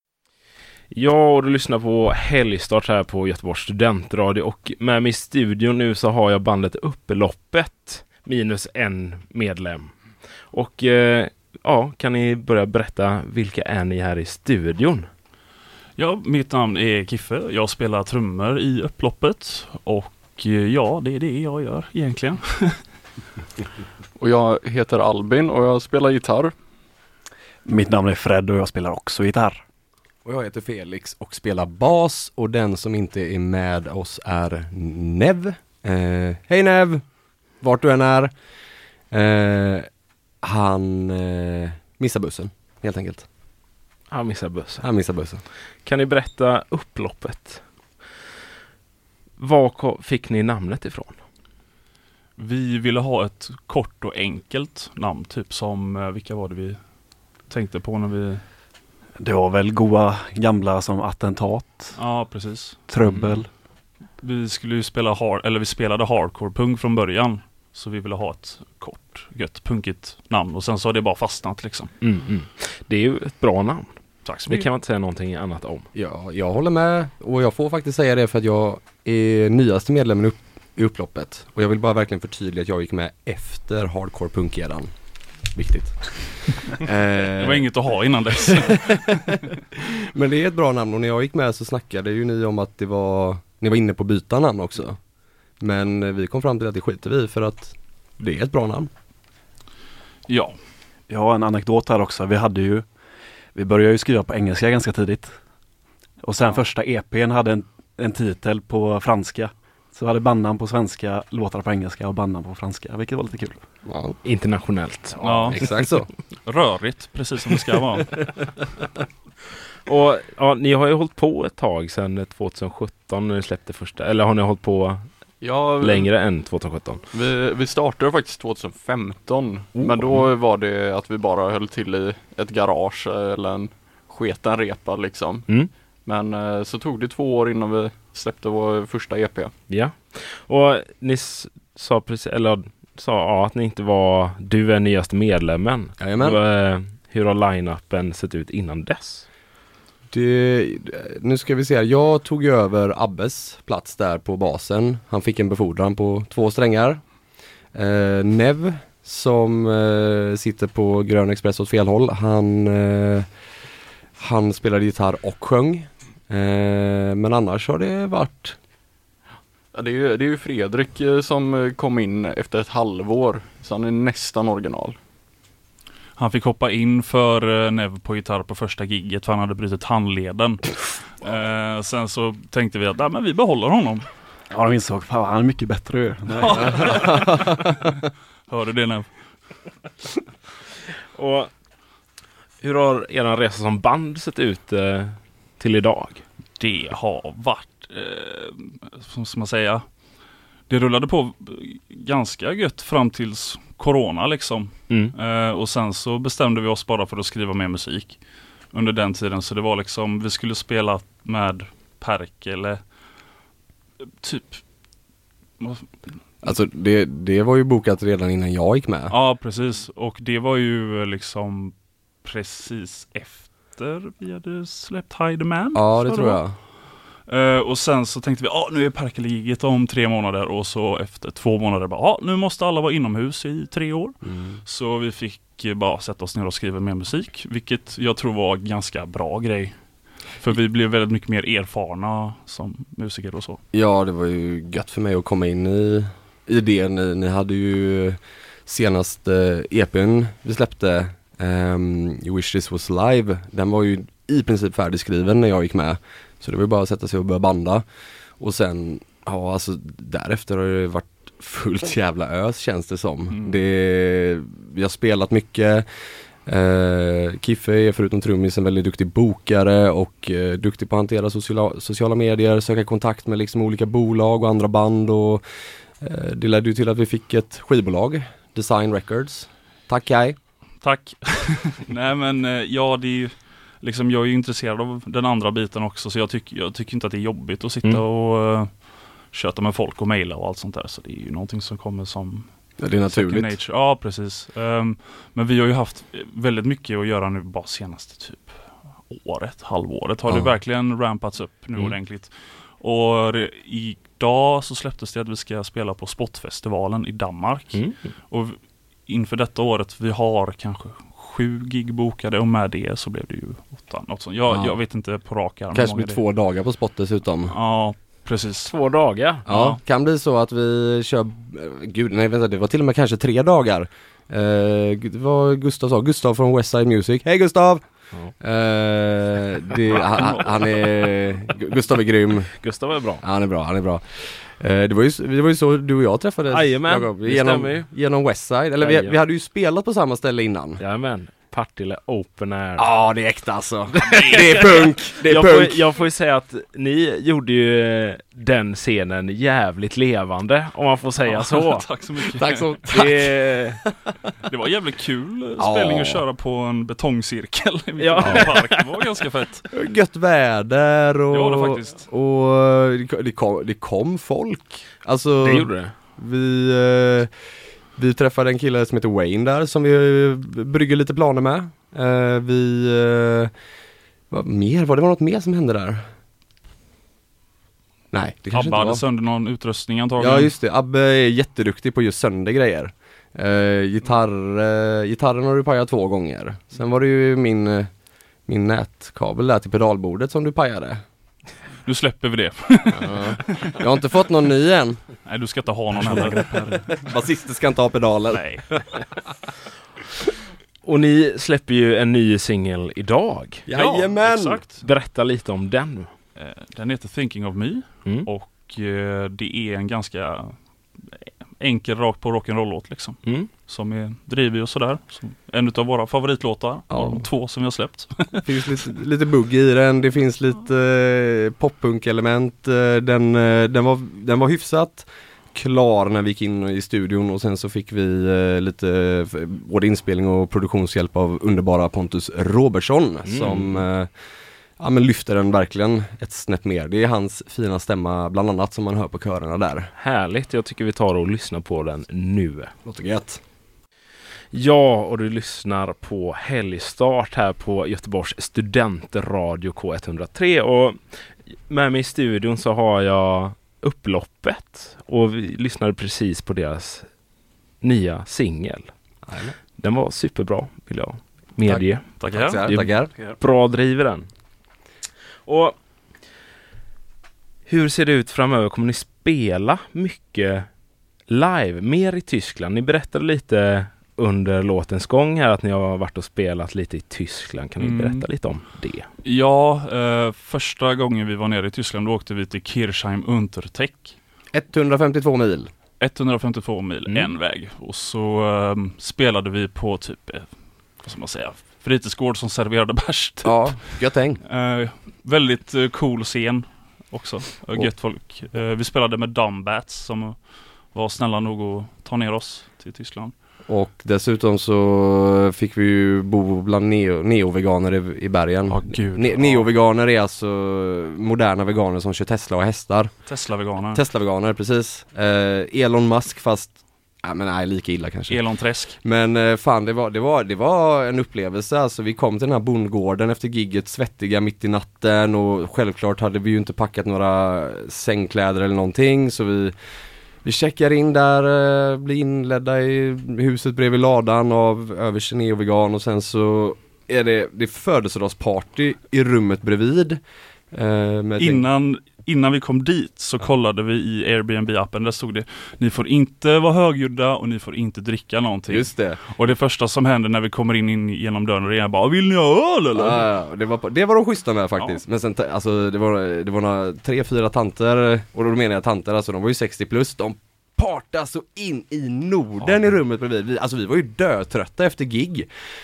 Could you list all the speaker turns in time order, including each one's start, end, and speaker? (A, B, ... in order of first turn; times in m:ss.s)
0:00.9-0:09.9 A
0:10.5-0:15.1 A
0:16.0-0:22.8 B
0:24.2-0:26.5 C
0:27.6-0:29.6 D
0:30.2-0:37.0 E
0:37.6-0:38.3 E
0:39.1-0:39.9 E
0:40.4-0:43.3 E
0:44.1-0:44.8 A
0:44.8-0:45.4 E
0:45.8-0:47.6 A
0:49.4-0:51.2 A
0:52.4-0:56.8 B
0:57.5-0:58.4 B
0:59.2-1:02.0 D
1:02.0-1:02.8 B
1:02.9-1:03.5 D
1:03.0-1:03.4 A
1:04.2-1:11.9 B
1:12.0-1:13.9 A
1:14.2-1:14.7 B
1:14.5-1:15.9 A
1:15.9-1:24.9 E
1:25.5-1:27.7 E
1:27.4-1:29.3 B
1:28.6-1:35.0 E
1:35.6-1:38.9 E
1:40.3-1:40.6 B
1:41.1-1:42.8 D
1:43.6-1:45.4 D
1:46.2-1:53.6 D
1:53.8-1:54.2 E
1:54.2-1:55.6 A
1:55.2-1:55.6 B
1:55.5-1:56.1 E
1:56.4-1:58.1 B
1:59.9-2:05.1 A
2:05.4-2:06.1 C
2:05.8-2:07.0 A
2:07.1-2:19.5 C
2:09.8-2:10.1 A
2:19.7-2:29.3 A
2:26.0-2:26.4 E
2:30.1-2:37.0 E
2:37.7-2:43.3 E
2:44.2-2:48.6 E
2:49.7-2:55.0 C
2:56.2-3:04.0 B
3:04.5-3:07.0 D
3:06.4-3:09.1 B
3:07.0-3:07.6 E
3:11.2-3:11.5 A
3:12.6-3:16.2 A
3:16.6-3:19.8 B
3:20.7-3:28.2 B
3:28.7-3:32.8 B
3:34.2-3:34.6 B
3:35.6-3:35.9 B
3:36.4-3:39.1 E
3:39.1-3:46.4 B
3:45.7-3:46.6 E
3:47.3-3:59.8 B
3:54.2-3:54.6 E
4:00.4-4:03.6 B
4:03.7-4:17.8 E
4:18.4-4:25.8 E
4:23.3-4:23.6 B
4:26.5-4:35.4 E
4:36.0-4:40.4 E
4:40.8-4:58.6 B
4:52.8-4:53.6 E
4:59.1-5:16.2 B
5:00.3-5:00.5 E
5:14.5-5:14.8 E
5:15.7-5:17.6 E
5:17.5-5:18.7 B
5:18.7-5:19.4 A
5:19.5-5:19.8 B
5:19.5-5:27.8 E
5:28.4-5:32.5 E
5:29.9-5:30.9 B
5:32.6-5:33.2 A
5:33.2-5:40.8 E
5:36.5-5:37.9 A
5:38.8-5:39.2 A
5:40.8-5:42.9 A
5:42.8-5:45.8 E
5:44.0-5:44.7 B
5:45.2-5:51.9 A
5:51.3-5:53.2 B
5:52.4-5:53.9 E
5:54.4-5:59.7 B
5:55.6-5:56.2 E
5:58.0-5:58.9 A
5:59.7-6:07.3 E
6:01.3-6:02.0 B
6:05.4-6:05.9 A
6:08.0-6:13.5 E
6:14.3-6:16.0 E
6:18.1-6:19.0 E
6:18.5-6:20.5 B
6:20.2-6:27.9 E
6:28.5-6:31.0 E
6:31.8-6:33.7 B
6:32.9-6:35.0 E
6:35.2-6:36.6 B
6:35.9-6:36.9 D
6:36.9-6:39.0 E
6:38.3-6:38.6 B
6:40.8-6:43.6 A
6:43.7-6:44.6 E
6:43.7-6:44.8 B
6:44.8-6:46.1 A
6:46.4-6:50.6 B
6:51.1-6:58.5 B
6:56.9-6:57.3 E
6:58.4-7:14.1 E
7:13.3-7:13.8 A
7:14.8-7:19.9 E
7:20.0-7:22.7 A
7:22.8-7:23.4 E
7:24.5-7:31.0 A
7:31.7-7:37.1 A
7:37.8-7:38.9 A
7:39.3-7:39.6 E
7:39.8-7:42.1 A
7:41.7-7:43.1 E
7:42.2-7:42.7 B
7:42.6-7:44.3 A
7:45.4-7:45.8 A
7:47.7-7:50.7 A
7:51.3-7:59.1 A
7:57.8-7:58.3 B
7:59.2-8:04.2 B
8:04.5-8:05.7 E
8:06.0-8:10.5 B
8:11.0-8:13.9 B
8:13.4-8:14.4 E
8:14.4-8:20.4 B
8:20.9-8:23.3 B
8:23.7-8:33.2 E
8:28.7-8:29.7 B
8:33.3-8:34.0 B
8:33.9-8:38.4 E
8:38.3-8:39.0 B
8:39.0-8:49.7 E
8:50.4-9:00.2 E
9:00.7-9:01.6 E
9:01.4-9:13.3 B
9:08.7-9:09.2 E
9:13.0-9:25.5 E